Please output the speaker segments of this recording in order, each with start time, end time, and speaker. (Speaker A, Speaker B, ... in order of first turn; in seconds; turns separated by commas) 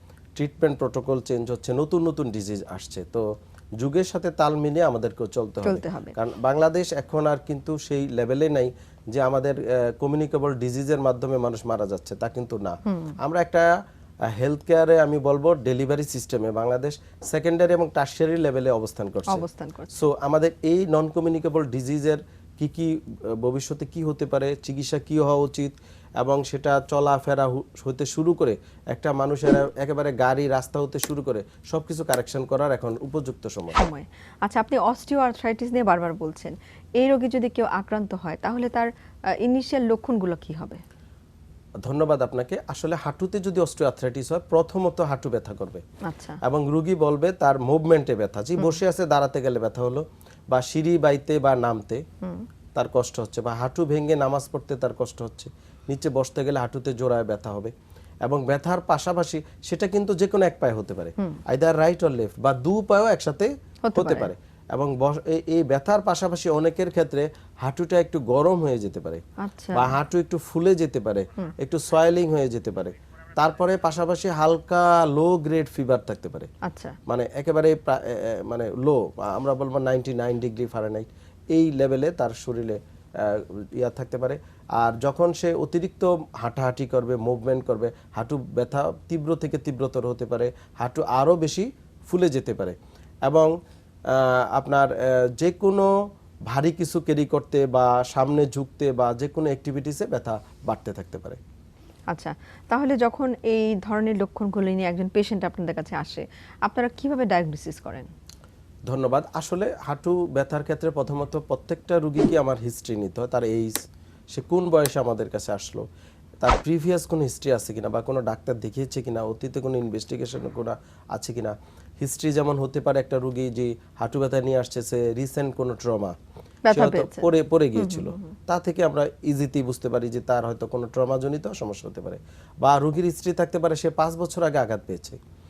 Speaker A: 0.3-3.2, Speaker A: 3.8-13.7, Speaker B: 5.6-6.1, Speaker B: 12.9-13.1, Speaker A: 14.3-33.8, Speaker B: 19.3-20.1, Speaker B: 33.7-38.9, Speaker B: 39.4-40.8, Speaker A: 41.8-45.8, Speaker B: 46.0-46.4, Speaker A: 46.4-52.0, Speaker A: 52.7-57.7, Speaker A: 58.2-69.2, Speaker B: 63.8-64.3, Speaker B: 69.4-69.9, Speaker A: 69.7-76.5, Speaker B: 76.6-77.0, Speaker A: 77.1-92.8, Speaker A: 94.1-95.9, Speaker A: 96.5-101.4, Speaker B: 102.1-108.1, Speaker A: 108.9-113.8, Speaker A: 114.3-115.8, Speaker A: 116.4-126.1, Speaker B: 126.7-128.3, Speaker A: 126.7-135.2